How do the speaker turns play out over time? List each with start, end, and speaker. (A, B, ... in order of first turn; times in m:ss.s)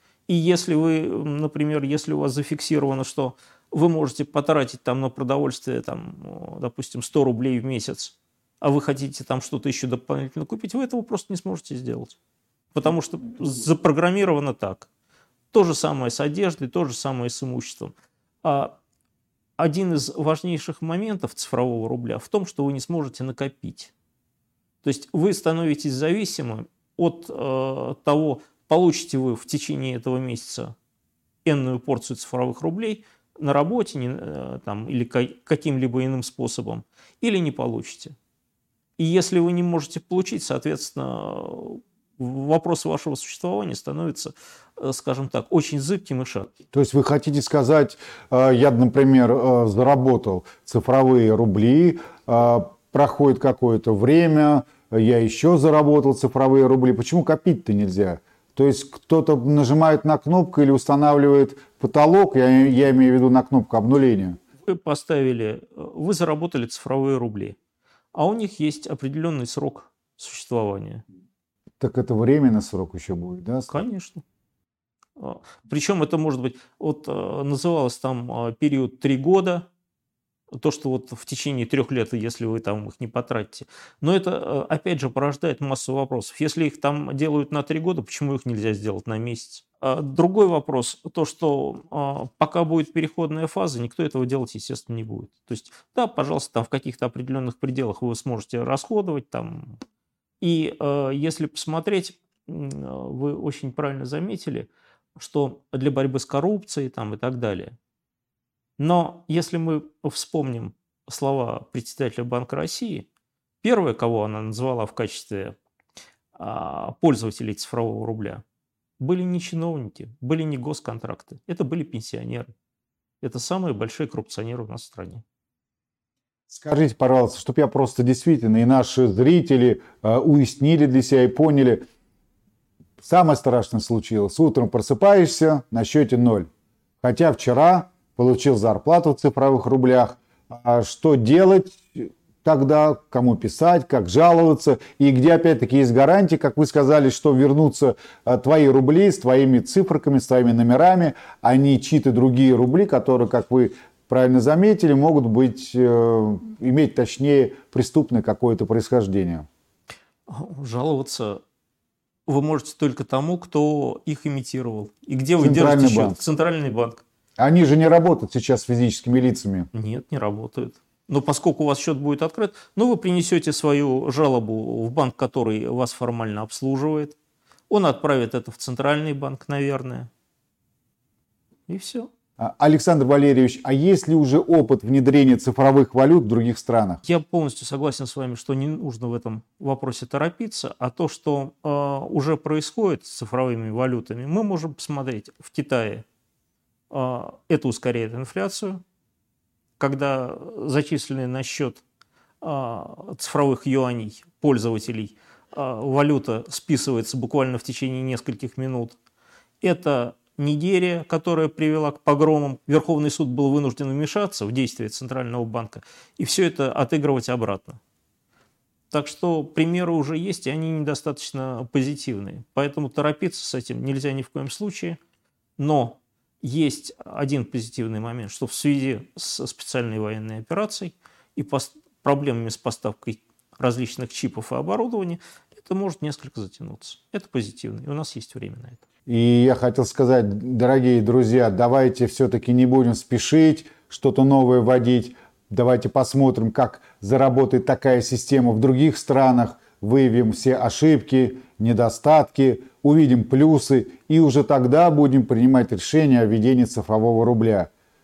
0:00.3-0:12.2 A
0:12.7-0:14.9 A
0:15.5-0:18.8 A
0:19.6-0:23.9 A
0:24.8-0:30.7 A
0:31.4-0:38.1 A
0:39.0-0:46.5 A
0:46.7-1:04.4 B
1:04.6-1:07.6 A
1:08.1-1:11.0 A
1:11.8-1:13.8 B
1:13.7-1:14.2 A
1:15.2-1:19.7 A
1:20.5-1:39.8 A
1:40.4-1:47.8 A
1:48.8-1:53.1 A
1:53.6-1:55.6 A
1:56.4-1:58.4 A
1:59.0-2:02.5 A
2:03.2-2:05.2 A
2:06.5-2:11.8 B
2:13.0-2:16.5 B
2:17.0-2:39.5 B
2:40.3-2:41.4 A
2:42.3-2:47.0 A
2:45.4-2:46.2 B
2:47.4-2:49.7 B
2:49.7-2:57.2 A
2:57.7-3:00.1 A
3:01.7-3:02.1 A
3:02.4-3:07.0 B
3:07.0-3:16.0 A
3:16.9-3:18.8 A
3:19.8-3:21.8 A
3:22.4-3:29.0 A
3:29.6-3:37.8 A
3:38.9-3:45.0 A
3:45.6-3:58.8 A
3:59.1-4:17.7 B